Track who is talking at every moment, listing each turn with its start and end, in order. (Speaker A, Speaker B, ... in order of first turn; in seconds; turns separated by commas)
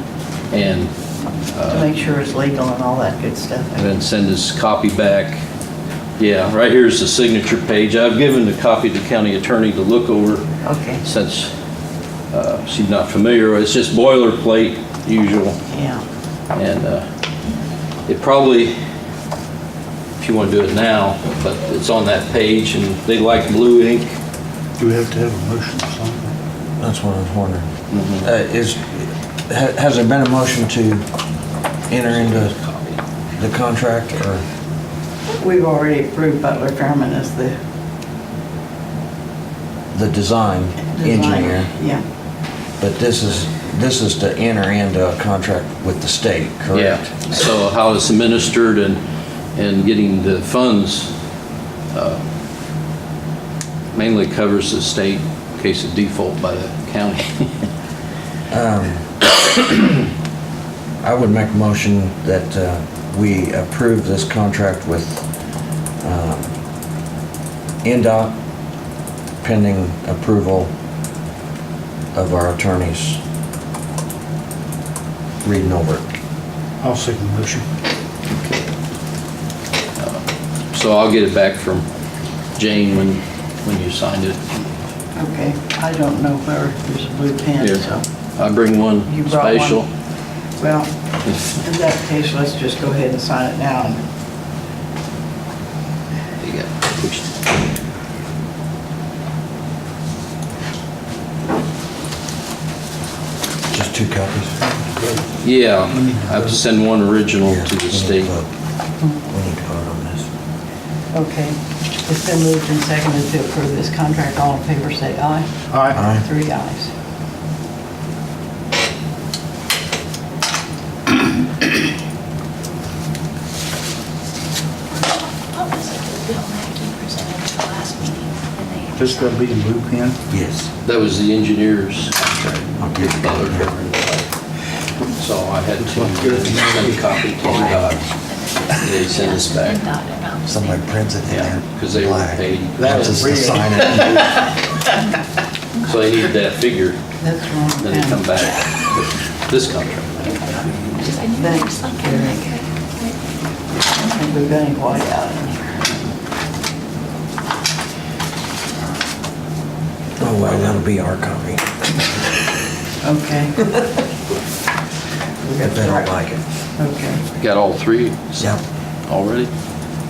Speaker A: 0.5-0.9, Speaker A: 1.5-1.9, Speaker B: 1.7-3.9, Speaker A: 3.8-5.4, Speaker A: 6.2-10.4, Speaker B: 10.6-11.0, Speaker A: 11.0-11.5, Speaker A: 12.3-15.6, Speaker B: 15.7-16.0, Speaker A: 16.5-17.0, Speaker A: 18.1-18.7, Speaker A: 20.2-24.2, Speaker C: 24.8-26.3, Speaker D: 26.8-27.7, Speaker A: 27.9-28.3, Speaker D: 28.2-31.0, Speaker D: 31.9-32.5, Speaker A: 32.1-33.0, Speaker D: 33.4-34.4, Speaker B: 35.3-37.5, Speaker D: 39.9-41.7, Speaker B: 40.9-42.0, Speaker D: 42.8-47.0, Speaker A: 46.7-49.0, Speaker A: 49.5-51.1, Speaker A: 51.9-52.2, Speaker A: 53.9-57.6, Speaker D: 58.5-59.1, Speaker D: 61.0-65.2, Speaker D: 66.0-66.5, Speaker D: 67.8-68.3, Speaker D: 69.4-70.7, Speaker D: 72.1-73.2, Speaker D: 75.4-76.0, Speaker C: 76.8-77.7, Speaker A: 78.3-78.7, Speaker A: 80.0-81.8, Speaker A: 82.5-84.5, Speaker B: 85.1-88.0, Speaker A: 88.4-89.8, Speaker B: 89.0-89.8, Speaker B: 90.6-90.9, Speaker A: 91.3-91.6, Speaker B: 91.6-94.0, Speaker A: 96.4-97.4, Speaker D: 103.7-104.5, Speaker C: 104.9-105.2, Speaker A: 105.4-108.3, Speaker D: 107.4-108.5, Speaker D: 109.3-110.3, Speaker B: 111.1-116.9, Speaker C: 115.7-116.0, Speaker D: 115.9-116.2, Speaker E: 125.4-129.4, Speaker C: 128.9-130.2, Speaker D: 130.3-130.7, Speaker A: 130.8-134.3, Speaker D: 132.7-133.7, Speaker A: 135.2-138.1, Speaker C: 135.8-137.0, Speaker D: 137.4-137.9, Speaker E: 137.6-141.1, Speaker A: 138.8-139.8, Speaker D: 140.5-144.4, Speaker A: 141.3-143.4, Speaker C: 142.8-144.4, Speaker A: 145.8-147.0, Speaker B: 147.2-148.2, Speaker A: 147.8-150.9, Speaker E: 148.4-148.8, Speaker E: 150.2-153.2, Speaker B: 151.4-152.5, Speaker E: 153.9-155.8, Speaker B: 154.1-155.6, Speaker D: 160.2-162.0, Speaker B: 163.0-163.8, Speaker B: 165.4-166.1, Speaker D: 165.6-166.4, Speaker B: 166.8-167.2, Speaker A: 167.4-169.5